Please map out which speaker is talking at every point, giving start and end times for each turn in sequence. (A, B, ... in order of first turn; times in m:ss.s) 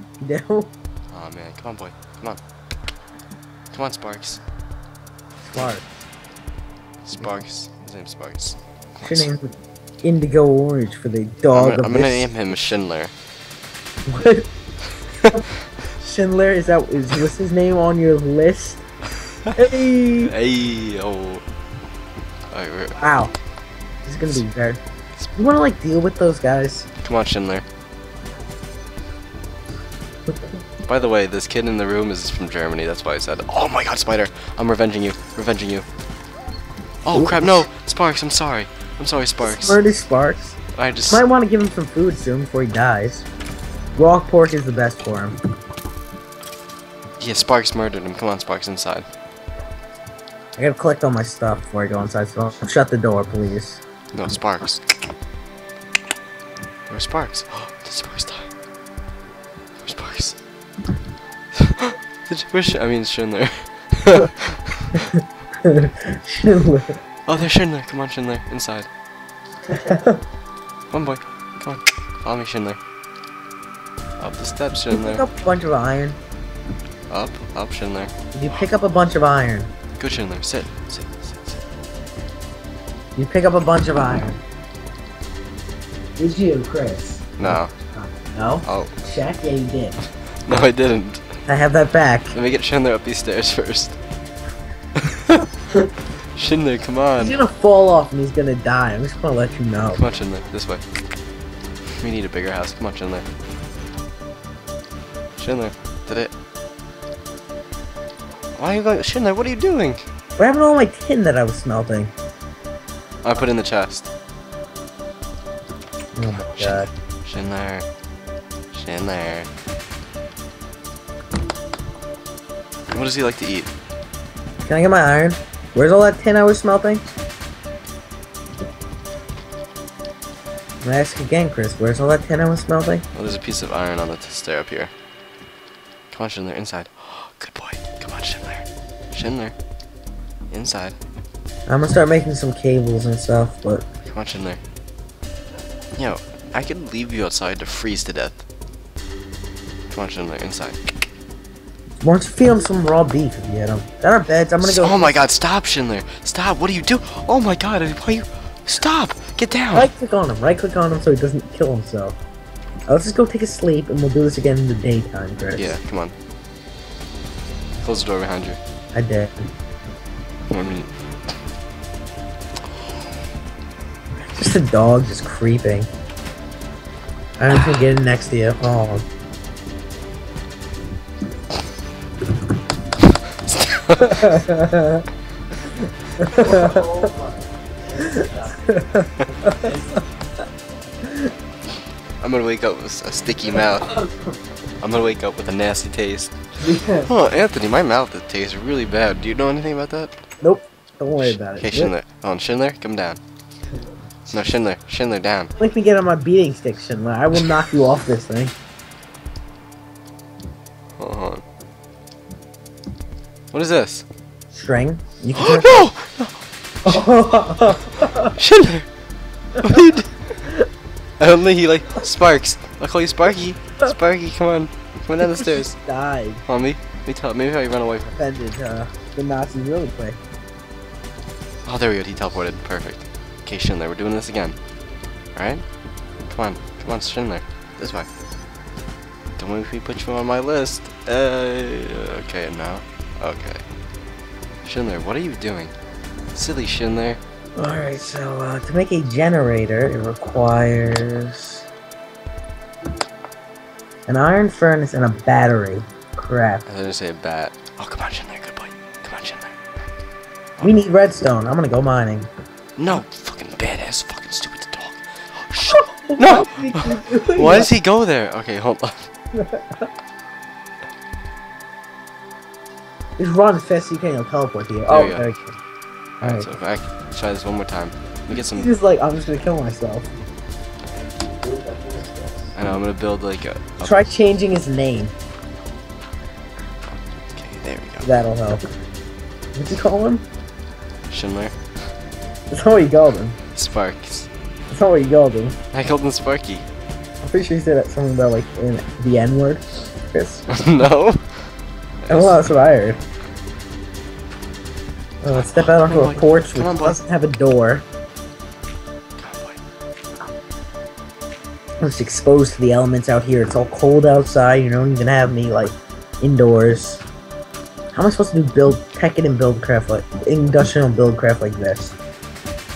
0:00.2-0:00.7 A
0:01.1-0:02.4 B
0:03.7-0:04.4 B
0:05.4-0:05.8 A
0:07.0-0:09.3 B
0:09.0-0:09.5 A
0:10.0-0:12.3 A
0:11.5-0:13.1 B
0:14.1-0:14.5 A
0:16.0-0:18.8 A
0:19.6-0:20.3 A
0:20.2-0:21.4 B
0:22.5-0:23.1 B
0:23.0-0:23.3 A
0:24.0-0:24.8 A
0:25.4-0:26.9 A
0:27.0-0:27.6 B
0:30.9-0:35.9 B
0:37.0-0:39.8 B
0:37.1-0:37.7 A
0:39.4-0:40.6 A
0:40.7-0:41.2 B
0:41.1-0:43.3 A
0:44.0-0:45.4 A
0:47.2-0:49.1 B
0:50.6-0:53.8 A
0:54.1-0:54.8 B
0:56.9-0:58.5 B
0:59.8-1:00.4 B
1:01.6-1:05.0 B
1:05.6-1:07.0 A
1:07.3-1:08.9 B
1:09.7-1:10.2 A
1:10.9-1:12.8 B
1:14.2-1:15.2 B
1:14.9-1:16.2 A
1:17.1-1:18.1 B
1:18.3-1:19.7 A
1:20.0-1:21.6 B
1:23.2-1:24.4 A
1:26.2-1:30.0 A
1:27.4-1:27.7 B
1:28.6-1:28.9 B
1:30.5-1:31.2 B
1:31.5-1:32.3 A
1:32.3-1:34.0 B
1:35.0-1:35.5 B
1:36.4-1:37.4 B
1:37.2-1:40.0 A
1:39.9-1:40.8 B
1:42.0-1:43.3 B
1:45.4-1:46.3 B
1:48.6-1:50.0 B
1:50.4-1:52.1 A
1:53.2-1:54.1 B
1:56.2-1:56.9 A
1:56.3-1:57.9 B
1:58.7-1:59.5 B
2:02.9-2:03.7 B
2:04.7-2:07.1 A
2:10.8-2:13.0 A
2:13.1-2:14.9 B
2:16.1-2:19.6 B
2:20.5-2:21.0 B
2:21.7-2:23.8 A
2:24.0-2:24.6 B
2:26.0-2:28.4 B
2:29.9-2:30.8 B
2:32.0-2:35.3 A
2:34.6-2:39.9 B
2:39.7-2:42.2 A
2:42.9-2:45.8 A
2:45.6-2:46.2 B
2:47.8-2:48.6 B
2:48.9-2:49.5 A
2:50.5-2:50.9 B
2:54.4-2:55.9 A
2:57.4-2:59.0 A
3:03.4-3:04.4 B
3:04.1-3:05.0 A
3:06.2-3:07.1 A
3:08.0-3:09.9 A
3:12.2-3:14.1 B
3:14.8-3:16.3 B
3:16.6-3:17.1 A
3:17.0-3:20.1 B
3:20.4-3:21.9 A
3:21.2-3:23.2 B
3:24.3-3:25.5 B
3:25.6-3:28.5 A
3:31.0-3:31.4 B
3:33.5-3:34.1 B
3:34.5-3:35.8 A
3:35.4-3:37.0 B
3:36.8-3:38.3 A
3:38.0-3:38.9 B
3:39.6-3:40.2 B
3:41.2-3:45.8 B
3:45.2-3:46.4 A
3:46.5-3:48.1 B
3:48.1-3:50.2 A
3:51.6-3:54.6 B
3:55.4-3:55.6 B
3:56.3-3:58.1 B
3:59.4-4:03.6 B
4:04.6-4:05.7 B
4:06.3-4:07.2 B
4:07.6-4:11.6 A
4:14.1-4:16.6 A
4:16.7-4:19.6 B
4:20.6-4:22.3 A
4:22.8-4:29.1 B
4:25.7-4:27.7 A
4:29.3-4:29.9 A
4:33.2-4:35.6 A
4:34.9-4:35.3 B
4:36.2-4:38.7 B
4:36.2-4:36.5 A
4:38.3-4:40.1 A
4:42.6-4:44.1 B
4:43.8-4:45.1 A
4:47.3-4:48.2 B
4:48.0-4:48.6 A
4:49.6-4:50.2 A
4:51.1-4:51.6 B
4:52.5-4:53.4 A
4:53.6-4:54.3 B
4:54.7-4:55.6 A
4:55.7-4:56.7 B
4:57.2-5:00.6 A
5:00.5-5:01.5 B
5:02.0-5:02.5 B
5:02.1-5:03.0 A
5:05.2-5:07.8 A
5:05.3-5:07.0 B
5:09.2-5:09.6 B
5:11.8-5:17.0 A
5:17.9-5:22.0 A